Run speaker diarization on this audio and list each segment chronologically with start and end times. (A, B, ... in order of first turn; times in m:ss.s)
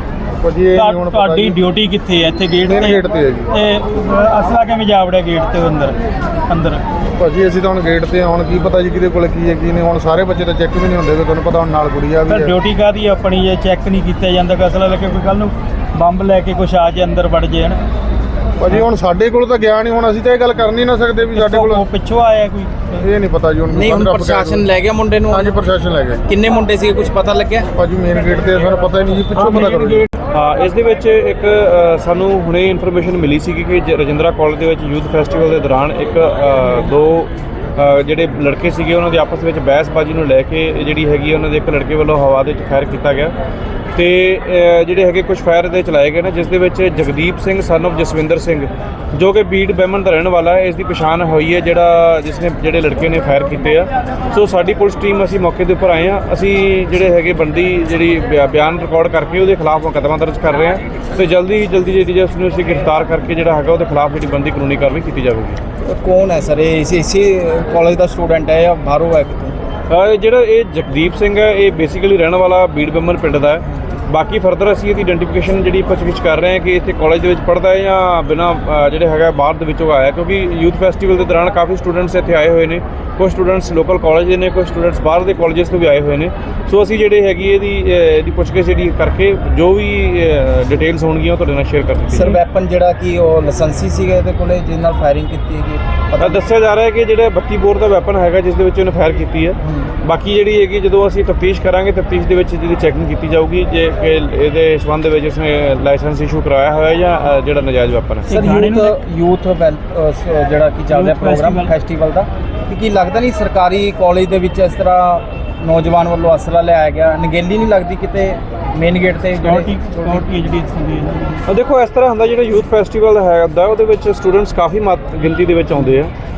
0:00.4-0:01.6 A
0:00.7-0:06.0 B
0:02.6-0:03.5 A
0:06.5-0:06.8 B
0:07.2-0:12.5 A
0:12.3-0:17.8 B
0:18.6-0:21.9 A
0:21.3-0:23.0 B
0:23.0-0:24.7 A
0:23.7-0:25.6 C
0:25.3-0:26.2 A
0:26.2-0:27.7 C
0:27.7-0:30.0 A
0:29.4-0:30.1 B
0:30.3-0:43.3 D
0:43.9-1:05.6 D
1:05.8-1:09.6 C
1:09.9-1:32.4 D
1:32.1-1:36.4 C
1:36.2-1:48.4 D
1:39.6-1:39.9 C
1:48.3-1:48.9 B
1:48.3-2:00.3 C
1:50.9-1:51.7 B
1:59.4-2:01.4 B
2:01.5-2:06.1 D